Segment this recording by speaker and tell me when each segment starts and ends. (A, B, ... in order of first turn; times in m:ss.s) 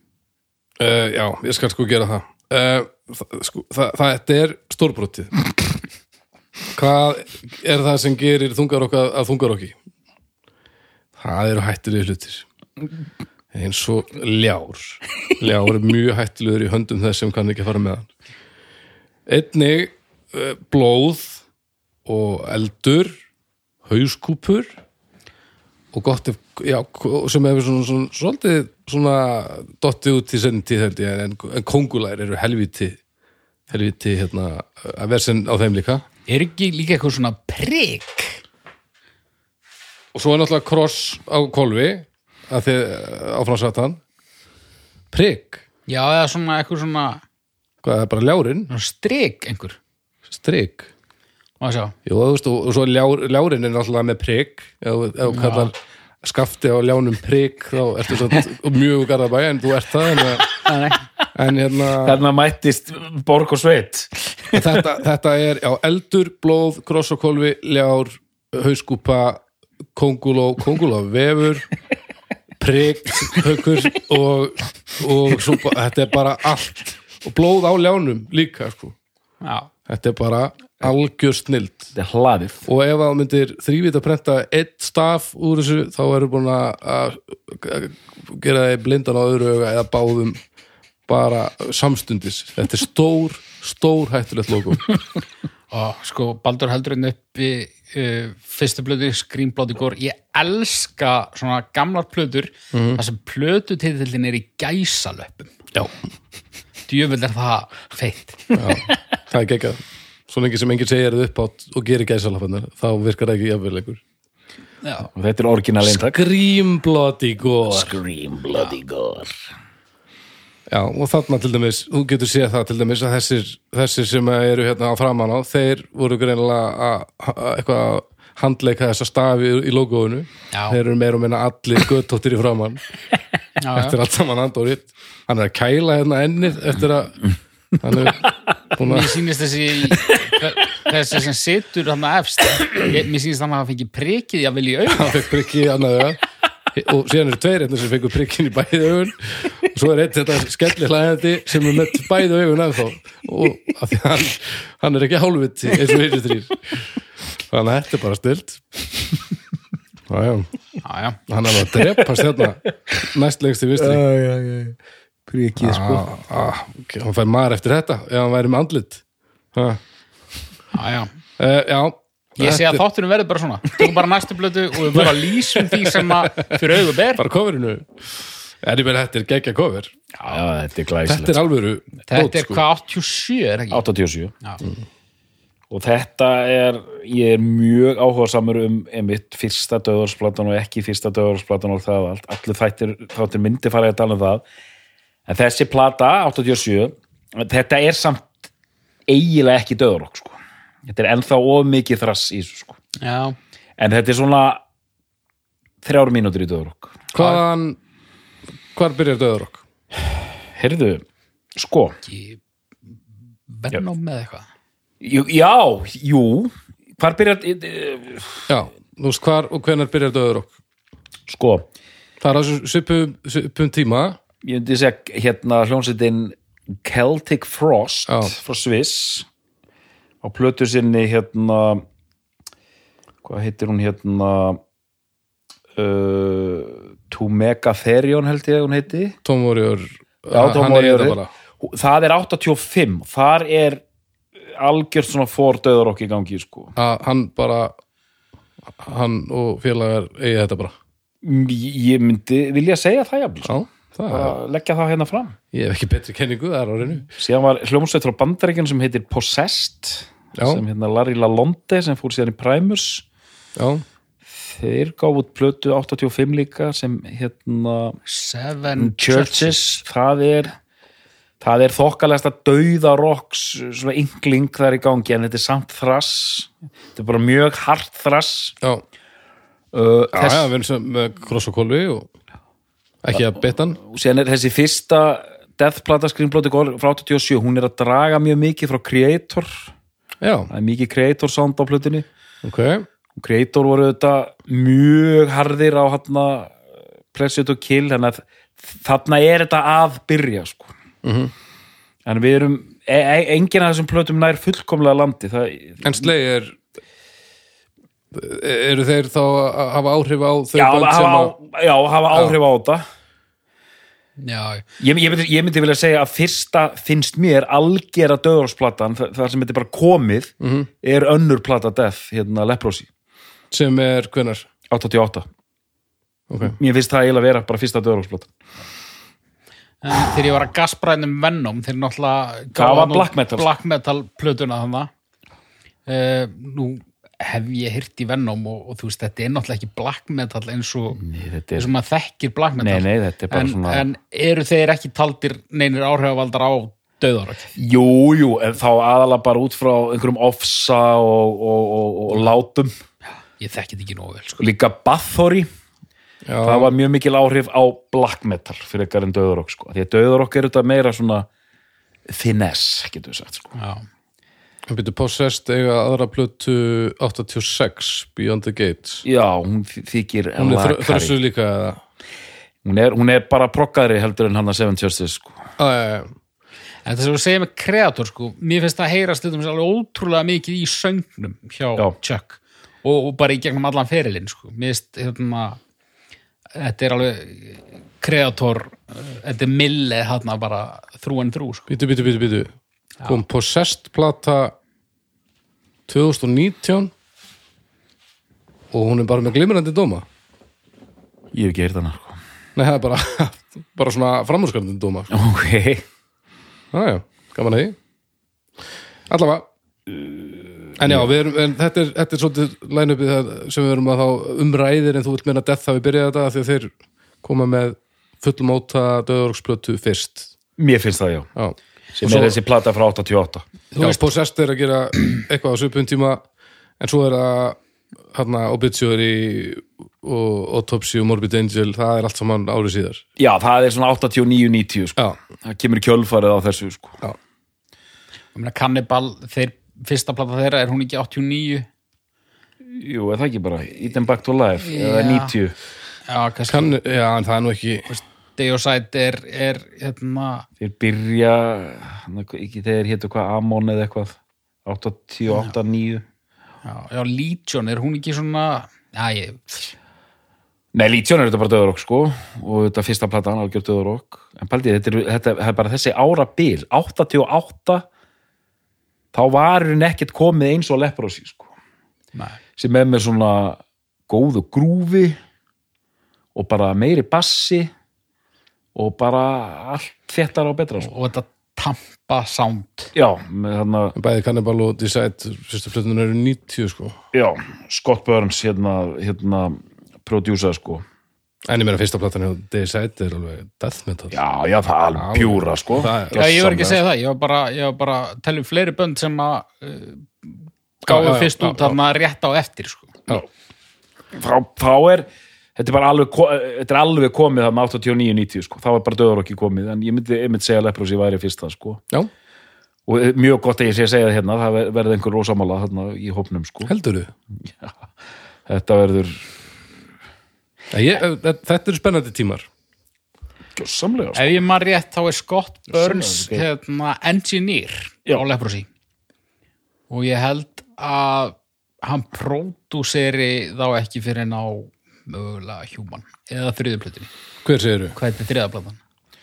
0:00.8-0:05.4 A
0:06.7-0:09.8 A
0:11.2-0:12.5 A
0:13.5-0:18.1 A
0:19.3-0:21.4 A
0:22.1-0:23.2 A
0:23.8-0:24.8 A
0:25.9-0:33.0 A
0:33.7-0:36.0 A
0:36.3-0:38.4 B
0:40.1-0:44.0 A
0:45.1-0:45.6 A
0:45.9-0:47.2 B
0:47.8-0:48.7 A
0:48.7-0:49.8 B
0:50.3-0:50.9 A
0:51.6-0:52.0 B
0:52.1-1:00.6 A
0:55.3-0:55.7 B
1:00.6-1:01.0 B
1:01.3-1:02.2 A
1:02.0-1:04.8 C
1:04.5-1:09.4 A
1:10.0-1:11.7 A
1:12.6-1:19.0 A
1:19.4-1:19.7 B
1:19.9-1:21.9 A
1:21.9-1:22.6 C
1:22.6-1:30.4 A
1:31.1-1:35.0 A
1:35.7-1:45.6 B
1:42.7-1:43.0 A
1:46.9-1:48.6 B
1:48.6-1:54.0 A
1:54.8-1:55.1 B
1:55.1-1:56.2 C
1:55.8-1:58.0 A
1:57.7-1:59.3 C
2:00.7-2:12.8 A
2:10.5-2:10.8 B
2:13.6-2:14.0 B
2:13.7-2:17.2 A
2:17.8-2:19.2 A
2:18.8-2:25.3 B
2:24.9-2:26.2 A
2:26.7-2:36.9 A
2:37.5-2:38.6 A
2:40.1-2:40.5 A
2:40.8-2:41.2 B
2:41.3-2:44.0 A
2:43.8-2:46.1 C
2:45.6-2:49.0 A
2:49.5-2:49.8 A
2:50.7-2:51.1 B
2:51.4-2:52.8 A
2:52.4-2:57.2 B
2:54.9-2:59.9 A
3:00.2-3:01.4 C
3:01.1-3:02.6 A
3:02.1-3:03.8 B
3:03.7-3:04.3 C
3:05.7-3:14.4 C
3:15.3-3:18.4 C
3:19.1-3:22.8 C
3:23.0-3:23.4 B
3:23.8-3:24.6 C
3:25.8-3:27.0 C
3:27.1-3:27.8 A
3:28.8-3:29.6 A
3:30.6-3:31.0 C
3:31.6-3:32.0 C
3:32.1-3:32.4 B
3:33.5-3:34.5 B
3:35.0-3:38.5 C
3:38.5-3:40.6 A
3:41.3-3:41.7 C
3:42.2-3:44.2 A
3:44.4-3:49.3 C
3:48.1-3:48.3 A
3:50.2-3:51.8 C
3:53.2-3:54.6 C
3:55.8-3:59.2 C
3:59.2-4:01.3 A
4:00.3-4:03.8 C
4:04.6-4:06.8 C
4:06.8-4:07.7 A
4:08.8-4:10.8 A
4:11.2-4:13.6 C
4:13.5-4:14.4 A
4:14.1-4:15.4 C
4:15.5-4:17.1 A
4:17.2-4:23.0 C
4:20.4-4:20.6 A
4:23.6-4:23.8 A
4:24.4-4:28.0 C
4:28.1-4:29.8 B
4:28.8-4:30.6 C
4:31.4-4:38.6 C
4:39.7-4:40.5 C
4:40.1-4:42.1 A
4:43.0-4:43.8 A
4:43.1-4:49.7 C
4:50.2-4:50.5 A
4:50.5-4:52.1 C
4:52.4-4:52.9 A
4:53.2-4:56.6 C
4:57.1-5:00.7 C
5:01.0-5:01.3 A
5:02.0-5:06.1 C
5:05.8-5:06.6 A
5:08.1-5:11.4 A
5:10.6-5:12.8 C
5:14.2-5:14.7 B
5:14.8-5:22.9 C
5:20.4-5:20.7 A
5:23.5-5:24.5 A
5:24.7-5:25.3 C
5:26.3-5:26.6 A
5:26.4-5:28.3 C
5:29.8-5:34.9 B
5:32.6-5:33.5 C
5:35.9-5:41.0 B
5:41.0-5:41.7 C
5:41.6-5:47.5 B
5:42.6-5:43.9 C
5:47.6-5:52.7 C
5:53.4-5:54.4 B
5:54.4-5:55.5 C
5:56.3-5:56.7 A
5:56.4-6:01.3 C
6:02.1-6:03.5 C
6:03.6-6:03.8 B
6:04.7-6:09.0 A
6:09.0-6:11.2 C
6:10.4-6:11.8 A
6:12.6-6:15.4 C
6:15.6-6:16.1 A
6:16.8-6:25.6 B
6:26.6-6:31.7 B
6:31.7-6:32.5 A
6:33.0-6:34.6 A
6:35.9-6:36.9 A
6:38.7-6:40.1 A
6:41.3-6:42.2 C
6:42.6-6:45.1 A
6:45.1-6:45.8 C
6:46.7-6:47.8 A
6:49.1-6:49.5 A
6:49.9-6:51.1 C
6:50.8-6:56.7 A
6:57.2-7:00.3 A
7:00.6-7:01.3 C
7:01.4-7:02.4 A
7:02.0-7:03.5 C
7:03.8-7:04.0 B
7:03.8-7:06.2 A
7:06.8-7:07.6 A
7:08.1-7:13.0 A
7:13.2-7:17.0 C
7:18.3-7:21.7 B
7:22.6-7:25.6 C
7:24.6-7:25.4 B
7:26.1-7:26.7 B
7:26.5-7:27.9 A
7:27.9-7:30.5 B
7:30.6-7:36.0 C
7:36.6-7:39.7 B
7:40.7-7:47.9 C
7:49.1-7:51.5 C
7:52.6-7:55.2 C
7:56.4-7:57.7 C
7:58.8-8:00.9 C
8:00.8-8:02.9 B
8:02.9-8:04.0 C
8:04.0-8:07.0 A
8:07.1-8:10.8 C
8:11.5-8:14.2 A
8:14.1-8:15.9 C
8:15.0-8:16.8 A
8:16.1-8:23.0 B
8:20.9-8:21.8 A
8:24.1-8:31.8 C
8:32.9-8:36.7 C
8:36.7-8:37.1 A
8:38.5-8:39.3 C
8:40.7-8:42.5 A
8:43.6-8:44.4 C
8:44.2-8:48.7 B
8:45.7-8:46.5 C
8:49.9-8:57.1 B
8:57.4-8:58.0 A
8:58.0-8:58.8 B